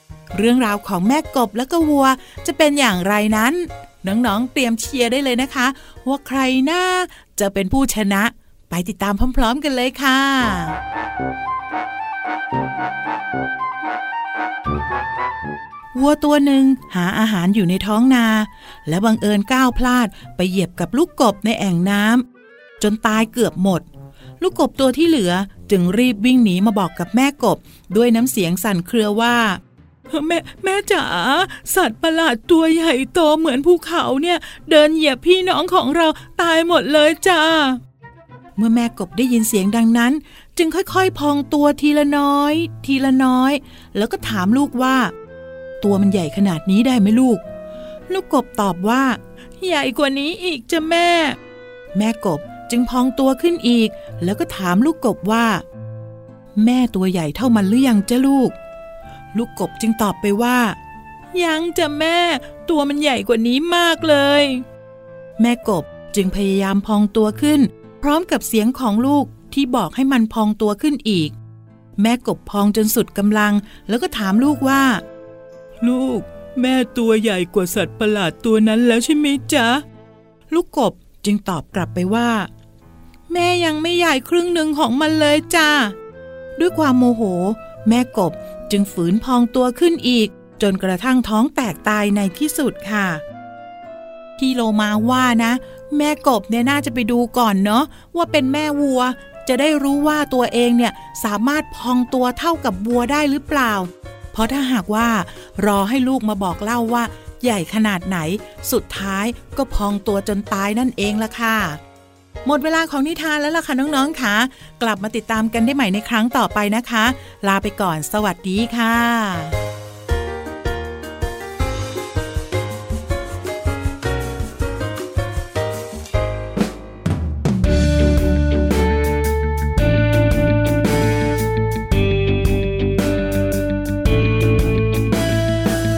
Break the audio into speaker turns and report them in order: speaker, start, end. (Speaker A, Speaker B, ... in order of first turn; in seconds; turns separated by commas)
Speaker A: 0.3-10.8, Speaker A: 15.9-22.2, Speaker A: 22.8-23.8, Speaker A: 24.4-29.6, Speaker A: 30.1-37.8, Speaker A: 38.6-45.1, Speaker A: 45.8-47.4, Speaker A: 48.1-51.4, Speaker A: 51.9-55.6, Speaker A: 56.6-58.5, Speaker A: 59.3-60.8, Speaker A: 61.3-64.6, Speaker A: 65.4-71.3, Speaker A: 72.0-75.0, Speaker A: 75.8-79.8, Speaker A: 80.5-82.5, Speaker A: 83.3-85.9, Speaker A: 86.6-93.2, Speaker A: 94.4-111.8, Speaker A: 112.4-119.5